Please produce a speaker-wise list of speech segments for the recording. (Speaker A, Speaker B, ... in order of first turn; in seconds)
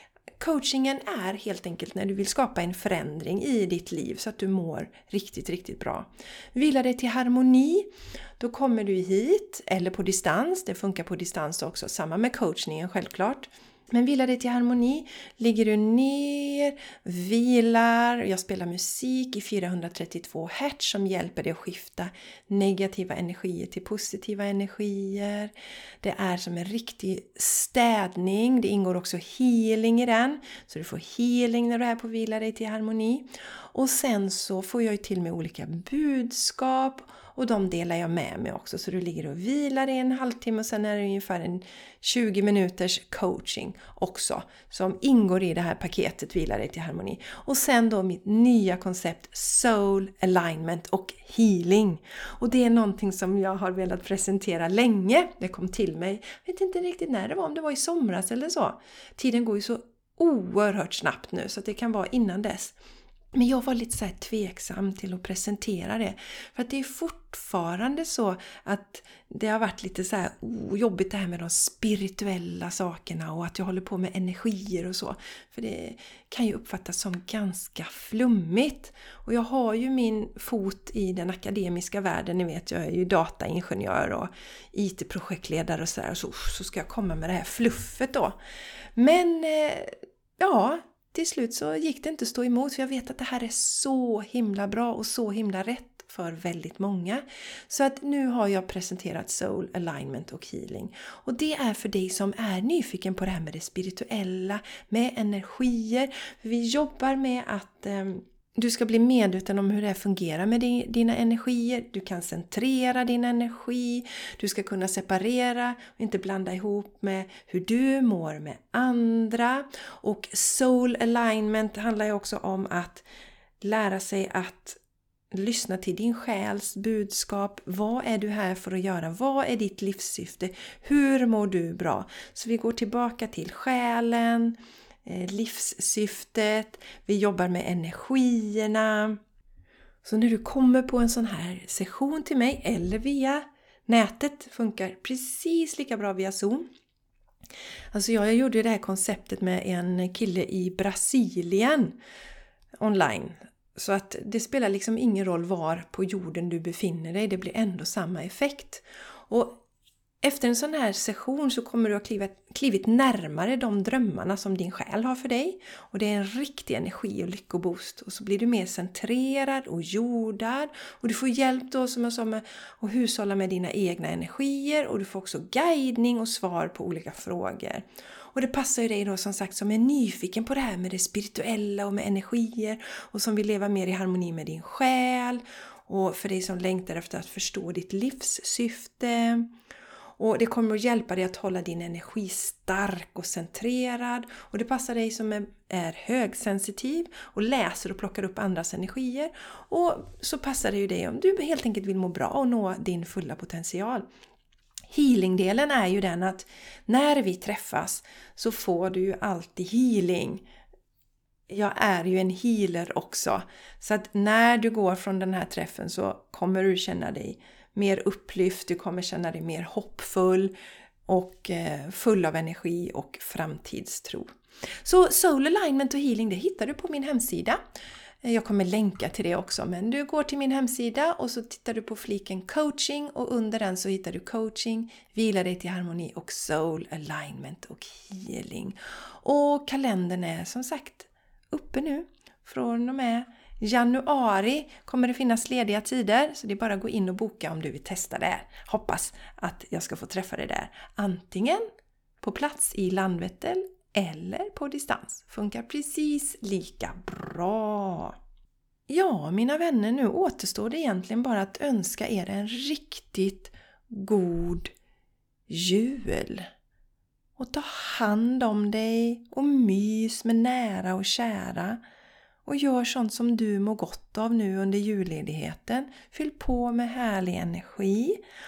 Speaker A: 0.4-62.8, 63.3-88.4, 89.0-123.0, 123.6-124.8, 125.3-139.2, 140.0-146.7, 147.9-152.0, 152.8-159.6, 160.2-189.5, 190.2-204.1, 204.9-210.4, 211.5-220.5, 221.1-224.3, 224.8-227.6, 228.2-251.7, 252.2-258.2, 258.9-264.7, 265.5-266.5, 267.4-271.8, 272.5-278.2